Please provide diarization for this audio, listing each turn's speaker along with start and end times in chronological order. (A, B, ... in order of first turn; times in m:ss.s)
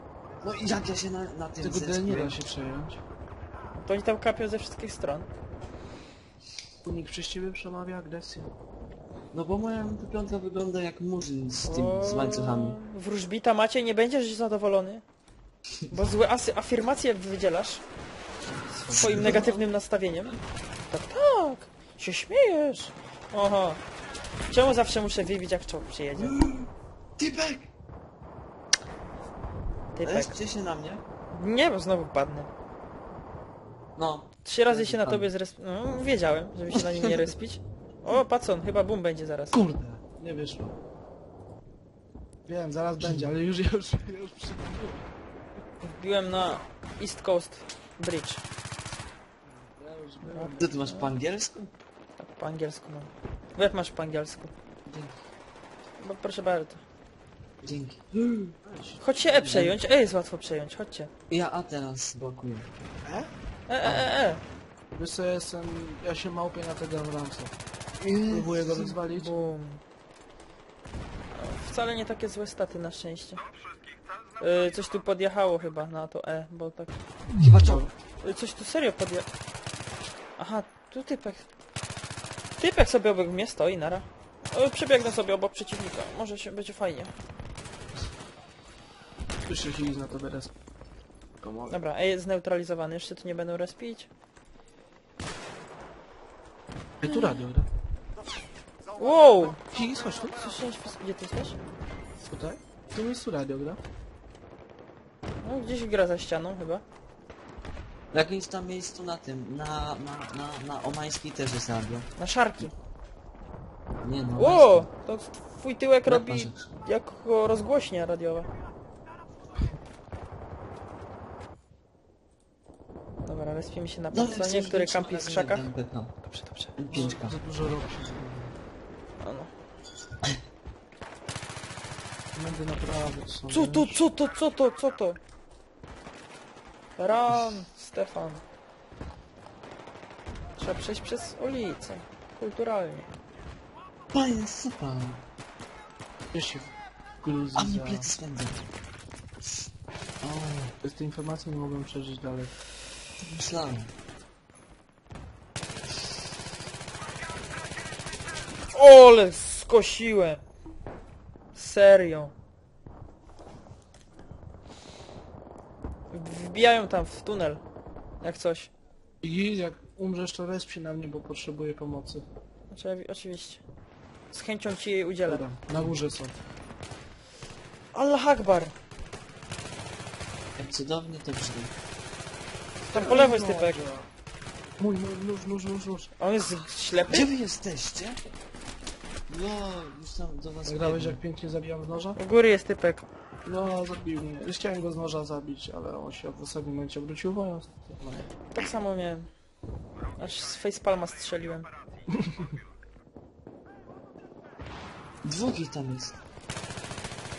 0:00.4-0:02.3 A
0:01.6-0:03.0 B
0:03.8-0:05.3 C
0:06.8-0:08.5 B
0:09.3-0:12.8 A
0:11.6-0:15.0 C
0:15.9-0:17.8 C
0:18.7-0:19.5 B
0:18.8-0:19.6 A
0:18.9-0:20.4 C
0:20.9-0:23.8 C
0:24.5-0:26.4 C
0:26.2-0:27.7 A
0:29.9-0:30.3 C
0:30.0-0:31.0 A
0:31.3-0:32.5 C
0:34.0-0:35.3 A
0:34.4-0:39.6 C
0:39.5-0:40.8 B
0:42.4-0:45.1 B
0:45.8-0:48.4 C
0:49.4-0:50.8 B
0:50.2-0:51.0 C
0:50.6-0:51.7 A
0:52.2-0:54.5 C
0:54.8-0:55.2 A
0:56.0-0:56.8 C
0:57.6-0:58.6 A
0:58.6-0:59.6 B
0:59.0-1:01.1 C
0:59.4-0:59.8 A
1:01.3-1:02.7 A
1:03.0-1:03.3 B
1:03.7-1:04.4 C
1:03.8-1:04.1 A
1:04.9-1:07.5 B
1:08.0-1:09.0 A
1:08.3-1:09.3 B
1:09.1-1:09.8 C
1:11.3-1:13.4 C
1:14.4-1:17.0 C
1:17.4-1:17.9 A
1:17.6-1:17.9 B
1:18.2-1:19.3 C
1:20.4-1:21.4 C
1:22.6-1:27.1 C
1:29.4-1:30.5 B
1:31.4-1:31.8 B
1:31.7-1:34.1 C
1:37.0-1:37.7 B
1:37.1-1:37.4 C
1:39.0-1:39.6 C
1:39.7-1:40.5 B
1:40.3-1:41.6 C
1:42.2-1:43.8 B
1:45.4-1:46.8 C
1:48.1-1:52.1 A
1:52.2-1:52.7 C
1:54.0-1:54.9 A
1:54.4-1:58.5 C
1:56.0-1:56.7 A
2:03.2-2:05.7 C
2:04.1-2:06.1 A
2:06.2-2:06.7 C
2:06.8-2:07.4 A
2:06.9-2:08.5 B
2:09.2-2:09.5 C
2:12.3-2:14.0 B
2:13.5-2:15.2 C
2:17.0-2:18.4 C
2:20.6-2:23.1 C
2:24.1-2:25.2 A
2:26.3-2:28.1 B
2:27.5-2:28.6 A
2:30.2-2:30.7 A
2:30.8-2:32.5 B
2:33.2-2:33.9 A
2:38.7-2:40.4 C
2:41.5-2:42.3 C
2:46.1-2:47.6 C
2:48.2-2:48.7 C
2:49.2-2:52.2 B
2:52.7-2:53.6 C
2:54.3-2:55.5 C
2:55.3-2:56.4 B
2:57.9-2:58.7 C
3:00.6-3:01.7 A
3:02.8-3:04.1 B
3:02.9-3:03.8 C
3:04.8-3:06.1 B
3:06.2-3:07.3 C
3:07.1-3:08.2 A
3:09.3-3:11.2 A
3:10.6-3:12.2 B
3:12.2-3:13.0 C
3:13.4-3:18.3 B
3:18.5-3:19.3 C
3:20.2-3:21.7 C
3:22.1-3:22.4 B
3:25.2-3:26.2 A